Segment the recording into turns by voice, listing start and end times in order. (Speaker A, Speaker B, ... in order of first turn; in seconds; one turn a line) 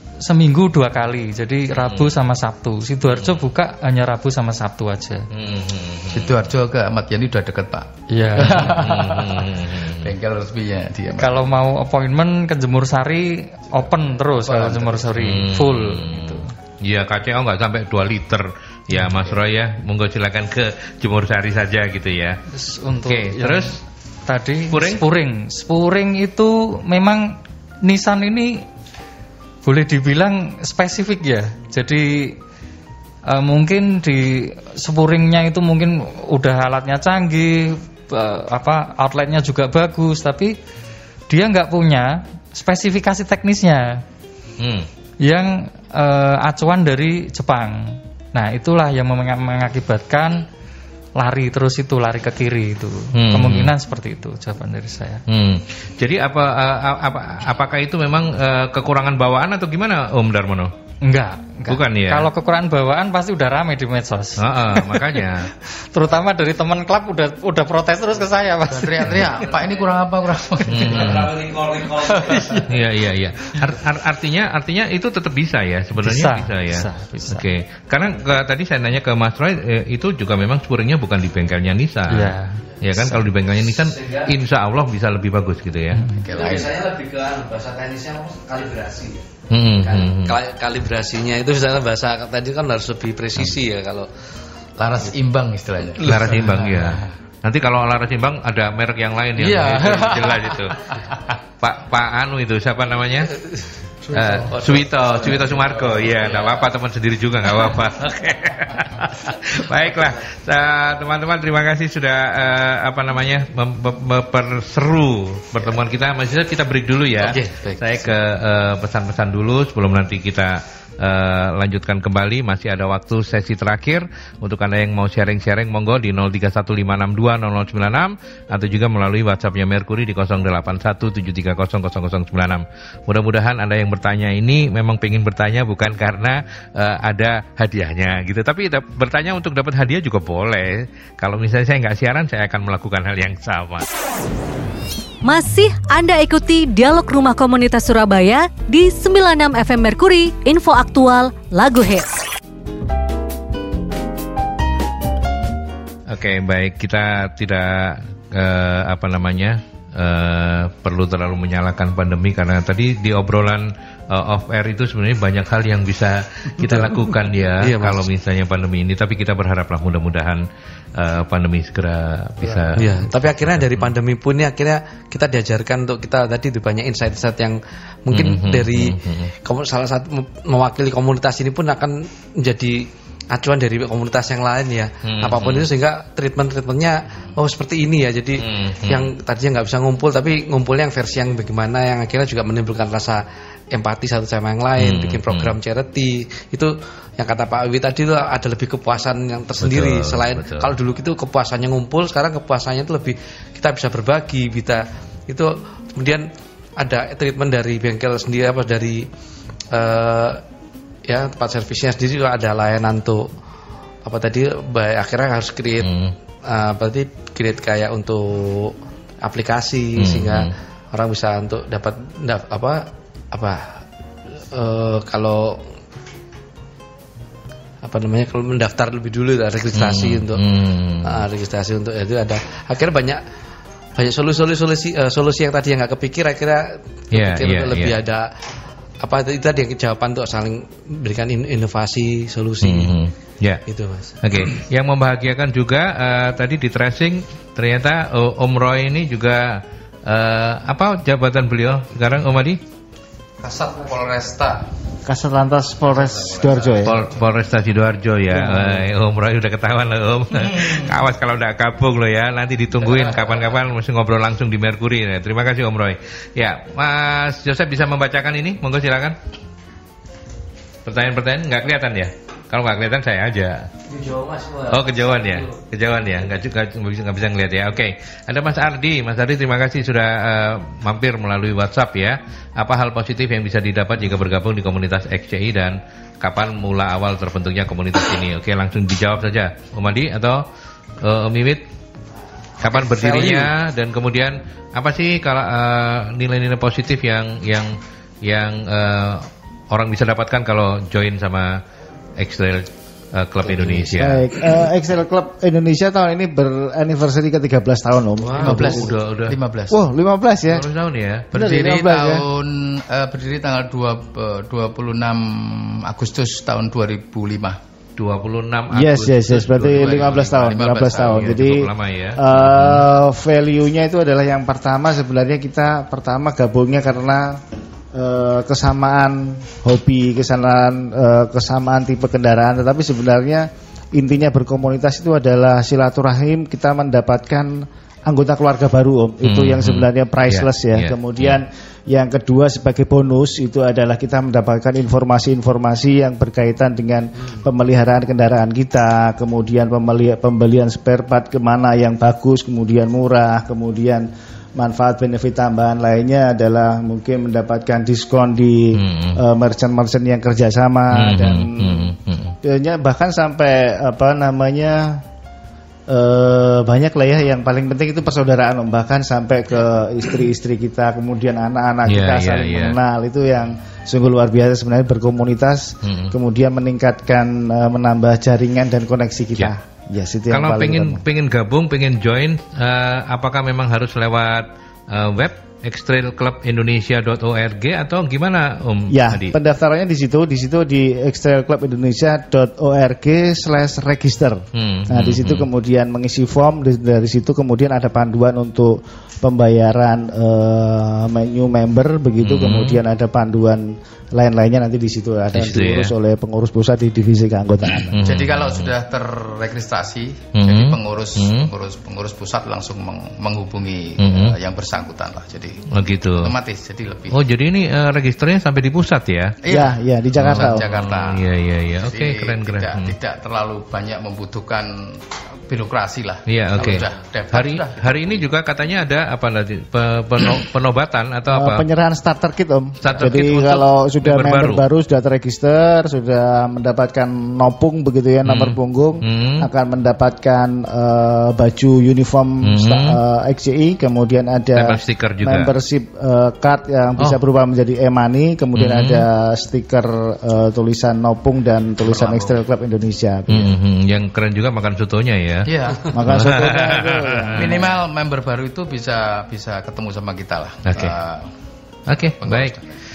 Speaker A: 0.2-5.3
Speaker B: 1.8-2.1
Speaker B: 5.3-6.3
Speaker C: 6.1-11.5
Speaker A: 8.1-8.8
Speaker B: 8.6-10.1
Speaker A: 11.1-16.5
Speaker C: 14.4-15.0
Speaker B: 15.1-22.4
Speaker C: 18.9-19.4
Speaker A: 22.5-28.6
Speaker B: 22.9-23.8
Speaker B: 24.7-25.0
Speaker A: 29.6-32.4
Speaker A: 33.3-40.5
Speaker A: 41.3-44.0
Speaker B: 44.6-44.9
Speaker A: 45.2-50.5
Speaker A: 51.2-55.2
Speaker B: 53.1-53.7
Speaker B: 55.3-60.7
Speaker A: 61.0-69.2
Speaker B: 61.7-62.3
Speaker B: 64.4-65.5
Speaker C: 68.7-71.3
Speaker B: 70.6-71.3
Speaker D: 71.1-72.2
Speaker C: 72.1-72.6
Speaker B: 72.7-86.0
Speaker A: 76.0-77.5
Speaker A: 82.1-82.6
Speaker D: 82.7-83.2
Speaker D: 83.7-84.3
Speaker A: 85.9-86.2
Speaker C: 86.2-86.8
Speaker D: 86.3-89.2
Speaker B: 89.5-90.3
Speaker D: 89.8-94.1
Speaker C: 94.8-97.1
Speaker B: 96.0-100.8
Speaker C: 99.4-101.4
Speaker B: 101.6-103.3
Speaker B: 104.1-143.9
Speaker D: 104.5-105.5
Speaker C: 105.8-106.5
Speaker D: 117.2-118.1
Speaker E: 145.2-152.1
Speaker B: 156.1-170.4
Speaker D: 166.6-166.9
Speaker D: 167.6-168.1
Speaker B: 170.9-173.1
Speaker D: 172.4-206.2
Speaker B: 178.1-179.3
Speaker B: 185.0-185.7
Speaker B: 188.4-189.1
Speaker B: 194.8-195.6
Speaker B: 199.6-200.7
Speaker D: 206.8-209.1
Speaker D: 209.7-210.4
Speaker D: 211.1-213.3
Speaker D: 214.0-215.9
Speaker B: 215.8-216.1
Speaker D: 216.4-223.8
Speaker B: 220.0-220.5
Speaker D: 224.4-225.7
Speaker D: 227.8-230.4
Speaker B: 229.7-231.2
Speaker D: 231.0-233.2
Speaker D: 233.9-238.3
Speaker B: 237.1-238.0
Speaker D: 239.0-242.9
Speaker B: 242.6-243.6
Speaker D: 243.7-244.1
Speaker B: 244.2-252.6
Speaker D: 253.4-254.6
Speaker F: 255.0-257.0
Speaker D: 255.9-256.9
Speaker B: 256.8-269.1
Speaker F: 258.3-258.8
Speaker B: 270.9-273.7
Speaker D: 273.9-275.6
Speaker B: 274.7-290.4
Speaker B: 291.0-291.6
Speaker B: 292.6-301.6
Speaker D: 292.6-293.5
Speaker B: 302.2-304.3
Speaker D: 303.4-304.0
Speaker F: 304.0-308.9
Speaker D: 308.2-308.5
Speaker B: 308.4-309.4
Speaker C: 308.4-309.8
Speaker F: 309.7-310.7
Speaker B: 310.5-311.3
Speaker F: 311.3-312.2
Speaker C: 311.3-317.6
Speaker B: 318.0-320.3
Speaker F: 318.7-327.4
Speaker C: 319.5-321.4
Speaker B: 321.0-322.8
Speaker F: 327.9-365.0
Speaker B: 339.2-341.4
Speaker B: 358.7-359.2
Speaker B: 360.9-362.3
Speaker F: 365.9-381.0
Speaker B: 371.9-372.8
Speaker B: 375.8-376.1
Speaker B: 380.3-389.3
Speaker F: 388.9-408.0
Speaker B: 394.5-395.5
Speaker B: 402.2-402.8
Speaker B: 405.3-405.9
Speaker B: 407.8-408.7
Speaker C: 408.0-417.2
Speaker B: 410.4-411.5
Speaker B: 414.0-414.4
Speaker B: 415.7-416.3
Speaker B: 417.1-419.4
Speaker C: 419.4-421.2
Speaker F: 419.5-420.6
Speaker B: 420.2-422.9
Speaker C: 421.8-428.3
Speaker B: 426.3-431.6
Speaker F: 431.3-453.5
Speaker B: 432.8-434.6
Speaker B: 438.2-439.5
Speaker B: 442.4-443.0
Speaker B: 444.5-445.5
Speaker B: 448.6-449.0
Speaker C: 451.8-452.3
Speaker B: 453.3-455.5
Speaker C: 455.4-455.9
Speaker F: 455.9-457.7
Speaker B: 456.0-457.7
Speaker C: 457.4-461.3
Speaker B: 460.6-461.0
Speaker B: 461.9-462.6
Speaker C: 462.2-462.6